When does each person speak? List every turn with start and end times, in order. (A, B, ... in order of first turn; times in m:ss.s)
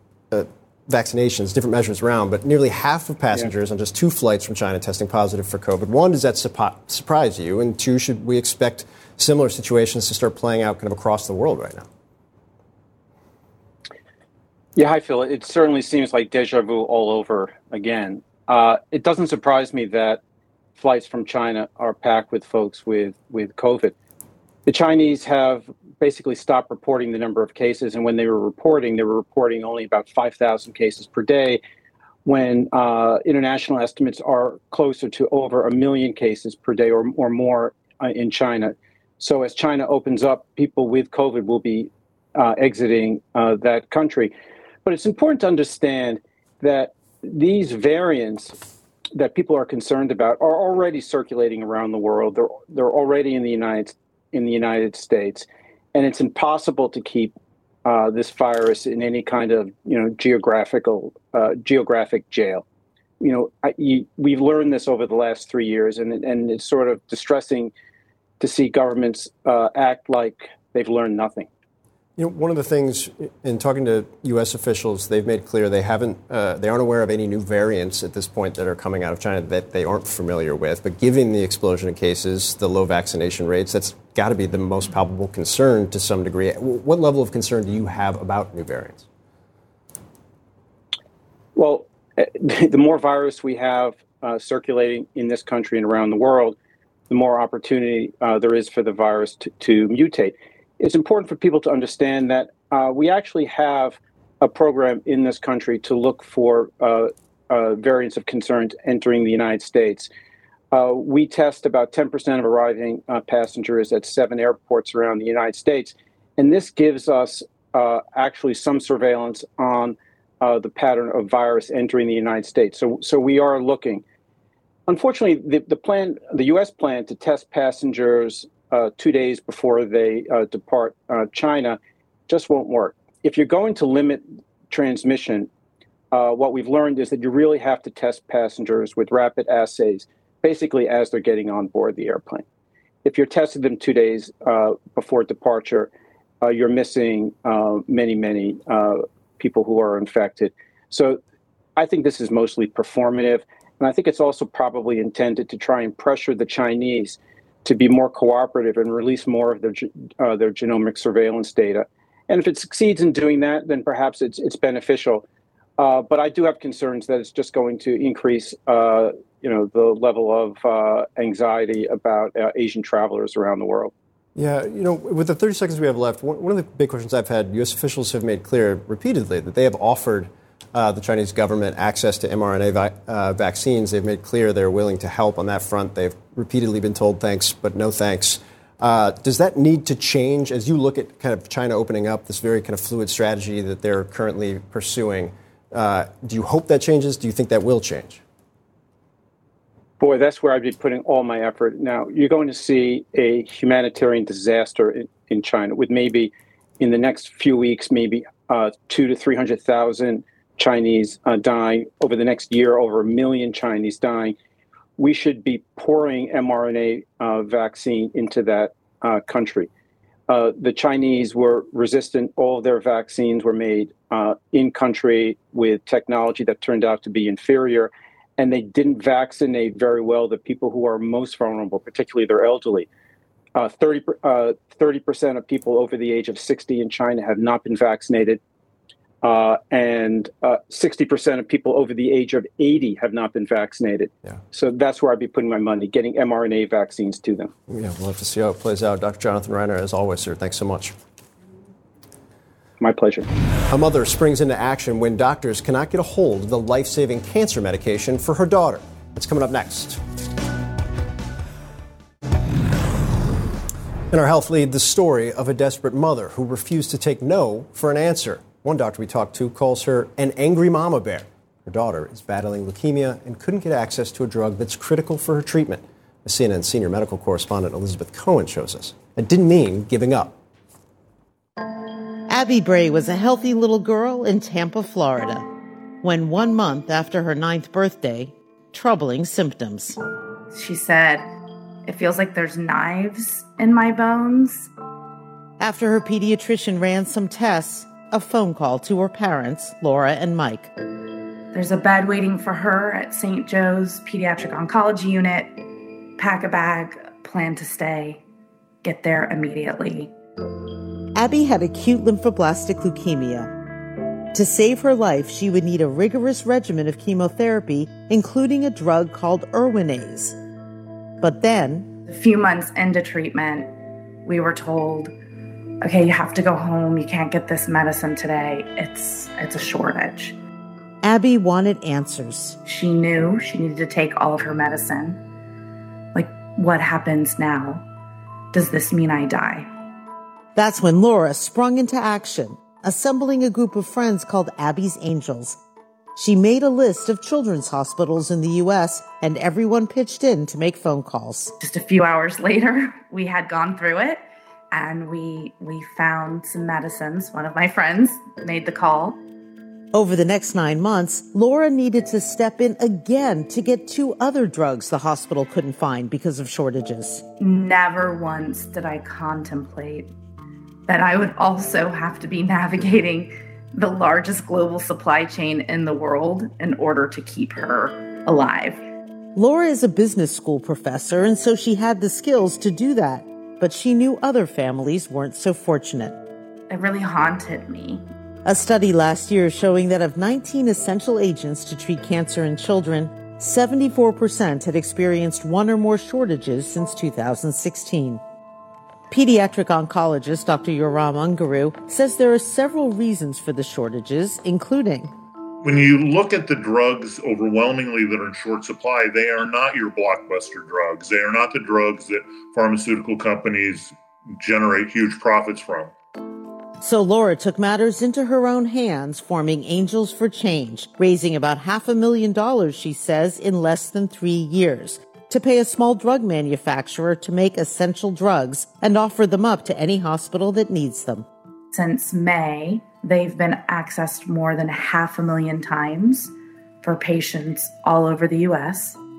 0:00.3-0:11.9 A
0:14.8-0:20.2 B
0:20.8-0:23.9 B
0:24.7-0:31.6 B
0:32.2-0:44.3 B
0:44.8-0:48.6 B
0:49.2-0:57.4 B
0:57.9-1:02.6 B
1:03.2-1:07.7 B
1:08.4-1:11.5 B
1:12.2-1:29.1 A
1:31.6-1:36.6 B
1:37.1-1:50.1 B
1:50.7-2:04.0 B
2:04.9-2:15.5 B
2:16.1-2:22.5 B
2:23.0-2:25.9 B
2:26.4-2:31.2 B
2:31.8-2:45.2 B
2:45.8-2:53.9 B
2:54.4-3:18.2 A
3:20.0-3:34.4 B
3:35.0-3:39.7 B
3:40.3-3:52.9 B
3:53.6-3:58.4 B
3:59.2-4:07.5 B
4:07.7-4:11.0 A
4:12.8-4:13.3 B
4:13.7-4:20.0 A
4:24.1-4:40.4 A
4:42.3-4:45.4 C
4:46.0-4:50.0 C
4:50.5-4:51.3 D
4:51.9-4:54.7 D
4:55.6-5:00.7 C
5:01.5-5:05.6 D
5:06.2-5:08.2 D
5:08.8-5:10.1 D
5:11.2-5:13.5 C
5:14.3-5:20.4 C
5:21.2-5:21.9 C
5:22.1-5:23.7 D
5:24.2-5:25.1 D
5:25.8-5:30.4 D
5:31.0-5:32.6 C
5:32.6-5:35.2 D
5:36.2-5:37.8 D
5:38.5-5:39.7 D
5:40.6-5:45.6 C
5:46.2-5:51.5 C
5:51.6-5:59.2 D
5:59.9-6:07.2 C
6:07.4-6:10.1 D
6:10.9-6:18.9 D
6:19.4-6:26.2 C
6:26.7-6:28.0 D
6:28.4-6:38.2 C
6:39.1-6:45.1 C
6:45.6-6:55.9 E
6:56.8-7:11.2 C
7:11.7-7:19.0 D